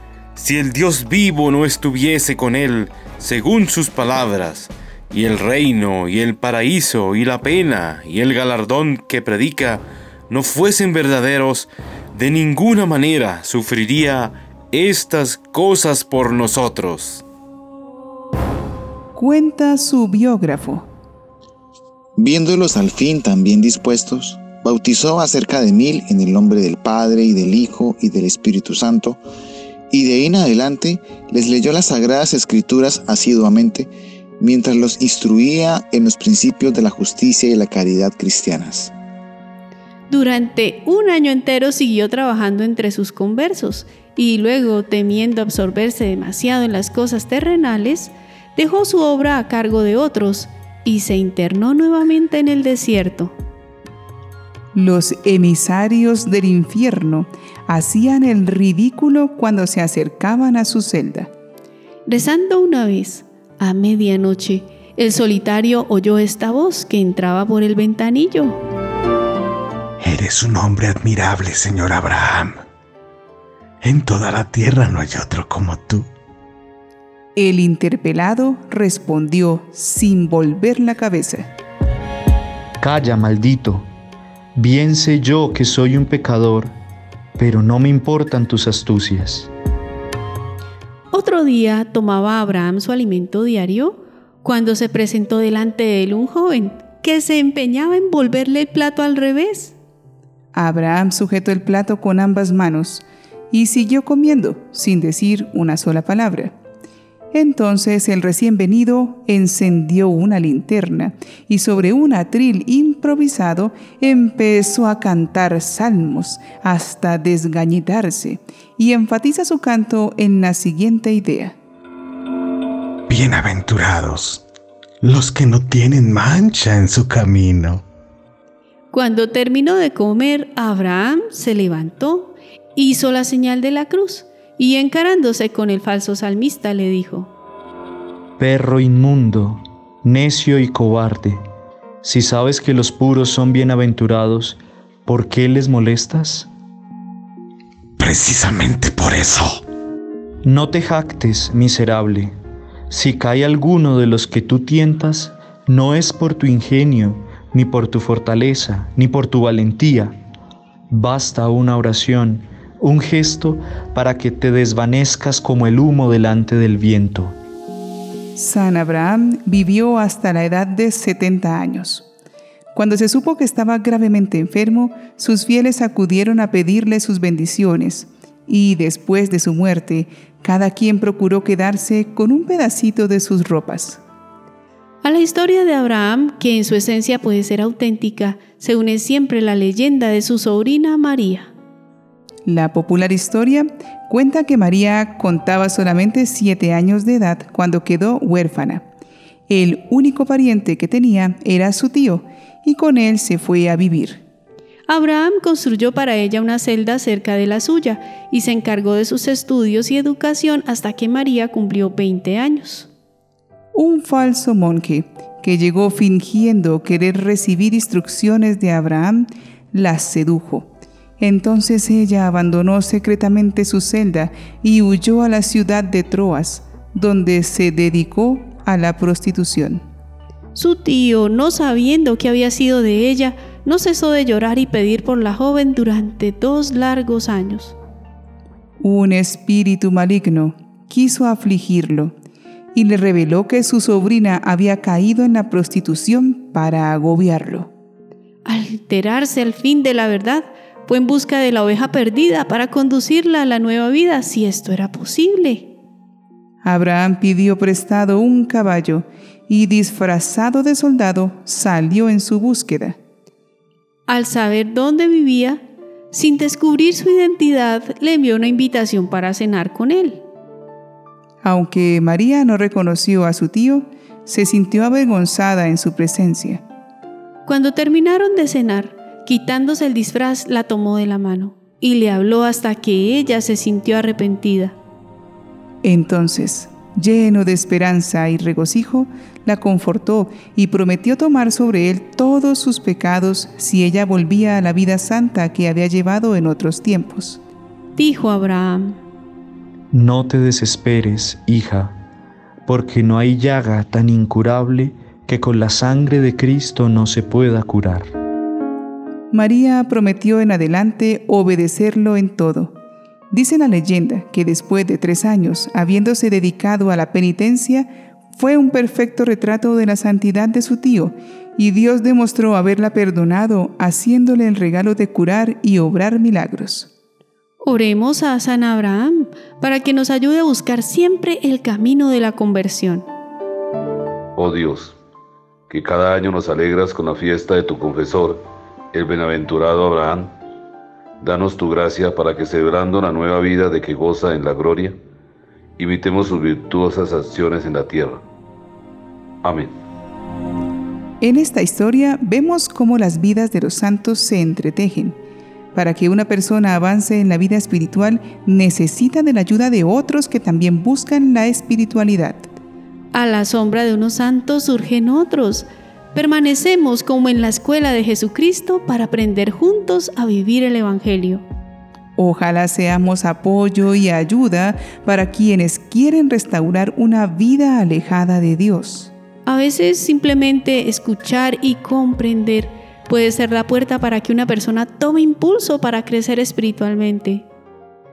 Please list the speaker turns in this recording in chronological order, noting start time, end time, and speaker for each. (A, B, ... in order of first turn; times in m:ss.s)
0:00.4-0:17.2 A
0:19.1-0:20.9 B
0:22.2-0:29.2 C
0:29.9-0:38.9 C
0:40.1-0:53.3 D
0:54.7-1:01.3 B
1:02.0-1:08.6 D
1:10.0-1:12.6 E
1:13.8-1:16.1 E
1:17.4-1:21.5 B
1:22.8-1:23.8 F
1:24.6-1:26.7 F
1:27.4-1:29.5 F
1:31.1-1:39.8 D
1:40.5-1:46.5 B
1:47.3-2:01.5 B
2:03.1-2:04.4 E
2:05.0-2:07.8 E
2:08.9-2:17.3 D
2:18.4-2:21.4 F
2:22.0-2:26.5 F
2:28.0-2:29.6 E
2:30.4-2:32.3 F
2:32.9-2:40.2 F
2:40.9-2:47.3 F
2:48.3-2:52.1 B
2:52.7-3:04.0 B
3:05.0-3:11.5 D
3:12.4-3:18.8 B
3:19.5-3:24.2 B
3:24.9-3:32.9 D
3:33.7-3:49.8 B
3:50.5-3:57.8 D
3:58.8-4:02.1 B
4:02.7-4:07.7 B
4:08.4-4:15.7 D
4:16.6-4:23.0 B
4:24.1-4:30.2 D
4:31.4-4:36.6 B
4:37.4-4:44.7 D
4:45.8-4:57.4 B
4:58.0-4:59.0 D
4:59.9-5:01.9 F
5:02.6-5:08.1 F
5:09.3-5:12.7 B
5:13.3-5:26.9 B
5:27.6-5:33.0 D
5:34.4-5:35.0 G
5:35.7-5:38.4 G
5:38.9-5:40.3 G
5:41.2-5:45.0 G
5:45.8-5:48.2 G
5:49.4-5:49.7 G
5:51.2-5:55.2 B
5:55.7-6:02.5 B
6:03.1-6:11.4 D
6:12.2-6:19.1 B
6:19.4-6:27.4 D